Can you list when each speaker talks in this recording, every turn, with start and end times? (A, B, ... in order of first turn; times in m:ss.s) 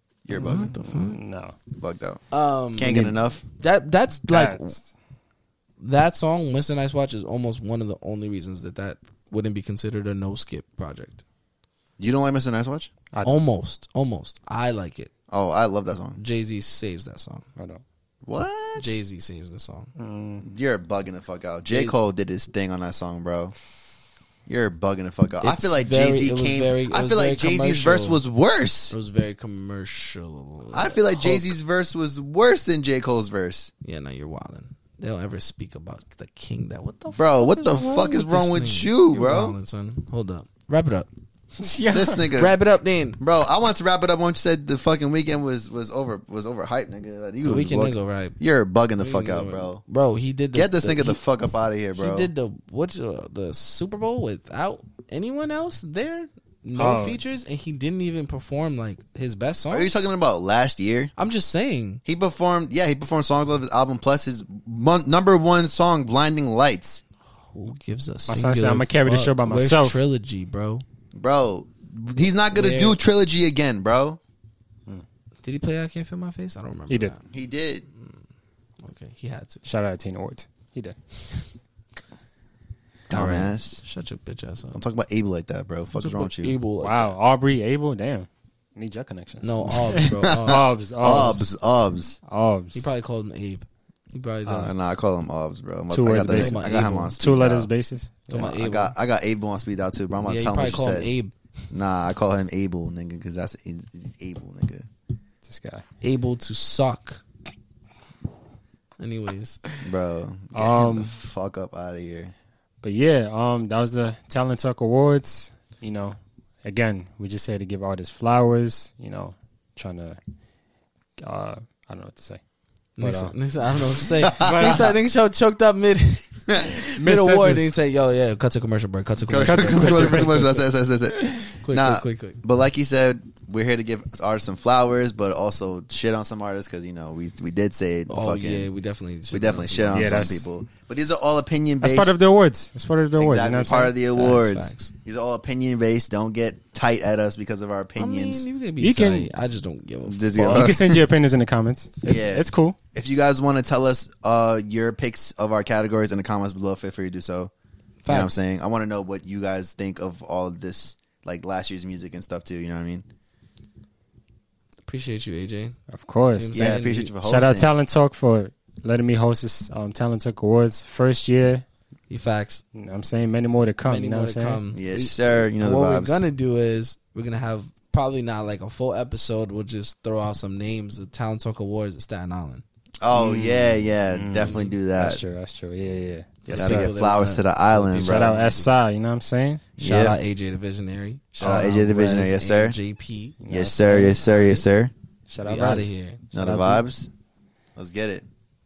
0:00.2-0:00.8 A
0:00.3-0:01.2 B
0:01.0-0:01.6 C
0:01.7-0:02.2 A
0:02.3-0:03.0 B
0:02.8-0:03.4 A
0:02.8-0:03.2 C
0:03.5-0:04.8 B
0:04.3-0:04.8 C
0:05.8-0:11.2 B
0:12.0-0:12.9 A
0:13.2-0:15.1 B
0:15.3-0:16.2 A
0:16.2-0:17.4 B
0:17.6-0:17.8 C
0:18.2-0:19.0 A
0:18.8-0:19.9 B
0:20.0-0:20.4 C
0:20.4-0:23.5 A
0:21.7-0:22.0 B
0:24.5-0:28.9 A
0:25.4-0:28.2 B
0:28.9-0:31.5 B
0:30.7-0:33.7 A
0:33.8-0:41.1 B
0:37.1-0:39.5 A
0:41.6-0:42.3 C
0:41.9-0:42.6 A
0:42.3-0:43.2 B
0:43.2-0:49.8 A
0:47.4-0:48.4 B
0:49.0-0:51.2 B
0:50.5-0:52.3 A
0:52.0-0:59.9 B
0:56.7-0:57.2 C
0:59.7-1:01.1 A
1:01.2-1:02.0 B
1:02.0-1:07.0 A
1:07.5-1:10.8 B
1:08.3-1:10.0 C
1:11.1-1:14.2 A
1:12.5-1:13.0 B
1:15.4-1:17.2 B
1:17.3-1:17.8 A
1:18.8-1:19.6 B
1:19.6-1:21.0 C
1:23.1-1:23.8 A
1:23.1-1:24.8 B
1:24.7-1:26.5 A
1:25.9-1:27.1 B
1:26.8-1:31.5 C
1:29.4-1:31.4 B
1:29.9-1:32.2 A
1:32.2-1:32.8 C
1:32.7-1:34.7 B
1:34.5-1:34.7 C
1:34.5-1:37.7 A
1:35.9-1:38.4 C
1:36.2-1:37.2 B
1:38.3-1:38.9 B
1:38.3-1:41.1 A
1:40.2-1:41.3 B
1:41.7-1:44.9 A
1:45.4-1:45.8 C
1:46.0-1:47.2 B
1:49.0-1:49.8 B
1:49.8-1:52.3 A
1:50.5-1:51.1 C
1:52.8-2:00.2 C
2:01.2-2:02.4 C
2:03.0-2:10.7 B
2:03.0-2:03.3 C
2:04.2-2:04.8 A
2:04.4-2:05.0 C
2:06.8-2:07.7 C
2:09.3-2:18.7 A
2:09.4-2:10.4 C
2:11.5-2:12.4 B
2:18.1-2:20.4 B
2:19.3-2:22.1 A
2:19.9-2:20.5 C
2:21.8-2:23.9 C
2:23.2-2:28.4 A
2:23.7-2:24.9 B
2:28.0-2:30.8 B
2:28.8-2:29.3 C
2:30.1-2:31.0 A
2:30.4-2:32.8 C
2:32.0-2:37.5 A
2:38.0-2:38.3 B
2:38.1-2:43.0 A
2:44.8-2:45.8 B
2:45.9-2:51.6 C
2:46.3-2:47.1 B
2:46.5-2:47.7 A
2:52.1-2:52.6 B
2:52.7-2:54.6 C
2:53.8-3:02.6 B
2:54.7-2:56.2 A
3:03.0-3:05.2 A
3:03.1-3:06.9 C
3:06.4-3:08.7 B
3:06.5-3:08.4 A
3:08.0-3:09.6 C
3:09.8-3:10.2 A
3:09.8-3:14.6 B
3:11.3-3:12.7 A
3:11.4-3:11.7 C
3:13.4-3:14.4 C
3:13.5-3:14.9 A
3:15.3-3:16.8 C
3:15.4-3:16.3 B
3:16.3-3:17.1 A
3:17.8-3:18.2 A